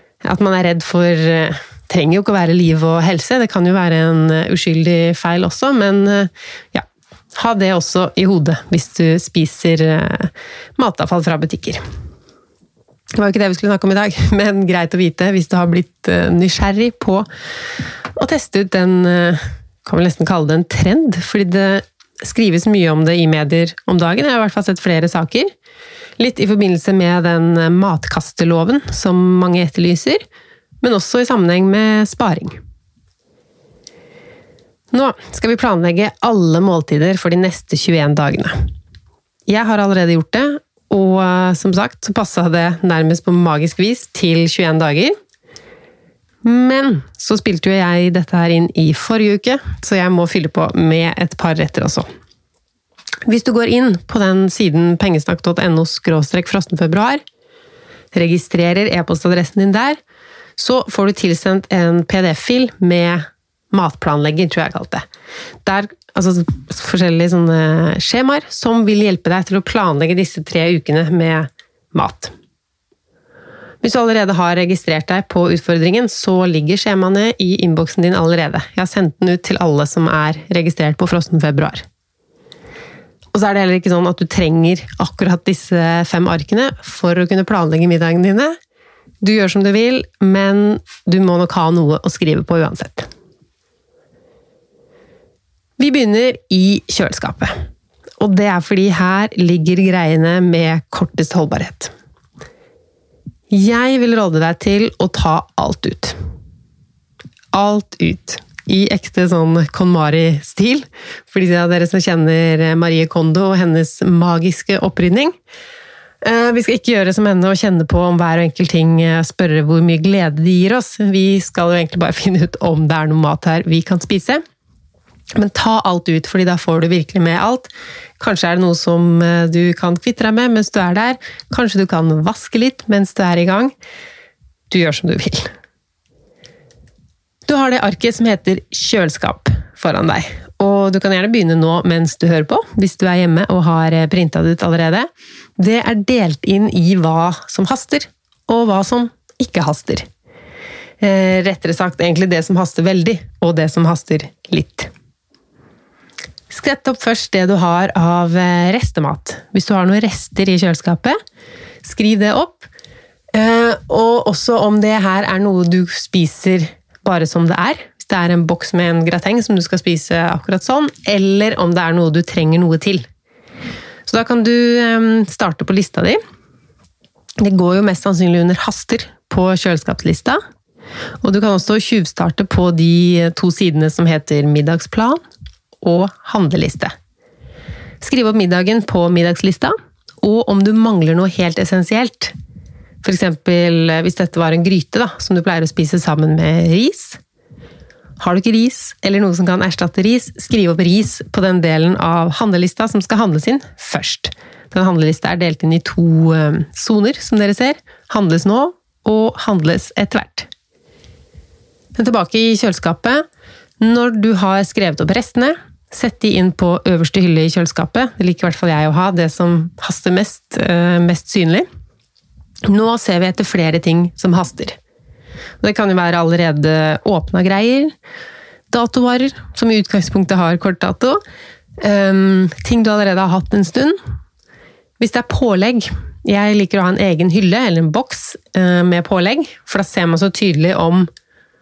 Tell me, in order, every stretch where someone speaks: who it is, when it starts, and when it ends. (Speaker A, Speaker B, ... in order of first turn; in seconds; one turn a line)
Speaker A: 0.2-11.8
Speaker A: 13.1-17.3
Speaker A: 18.1-25.5
Speaker A: 26.2-30.2
Speaker A: 30.8-32.6
Speaker A: 34.9-38.5
Speaker A: 39.5-45.1
Speaker A: 46.4-52.1
Speaker A: 53.2-57.2
Speaker A: 58.1-60.0
Speaker A: 60.6-65.0
Speaker A: 65.6-72.3
Speaker A: 73.8-81.8
Speaker A: 83.3-88.5
Speaker A: 89.2-93.1
Speaker A: 95.8-97.5
Speaker A: 98.2-101.9
Speaker A: 103.5-106.2
Speaker A: 107.5-115.3
Speaker A: 116.2-124.4
Speaker A: 125.3-133.7
Speaker A: 134.7-135.5
Speaker A: 137.5-145.1
Speaker A: 145.6-150.1
Speaker A: 151.0-154.9
Speaker A: 156.5-161.2
Speaker A: 161.8-162.7
Speaker A: 163.3-173.1
Speaker A: 174.1-176.2
Speaker A: 177.4-180.4
Speaker A: 181.2-185.2
Speaker A: 185.8-186.9
Speaker A: 188.0-192.3
Speaker A: 193.0-197.2
Speaker A: 198.2-210.5
Speaker A: 211.9-213.2
Speaker A: 213.8-221.6
Speaker A: 222.7-224.8
Speaker A: 225.6-227.9
Speaker A: 228.7-231.2
Speaker A: 231.8-233.9
Speaker A: 235.0-241.1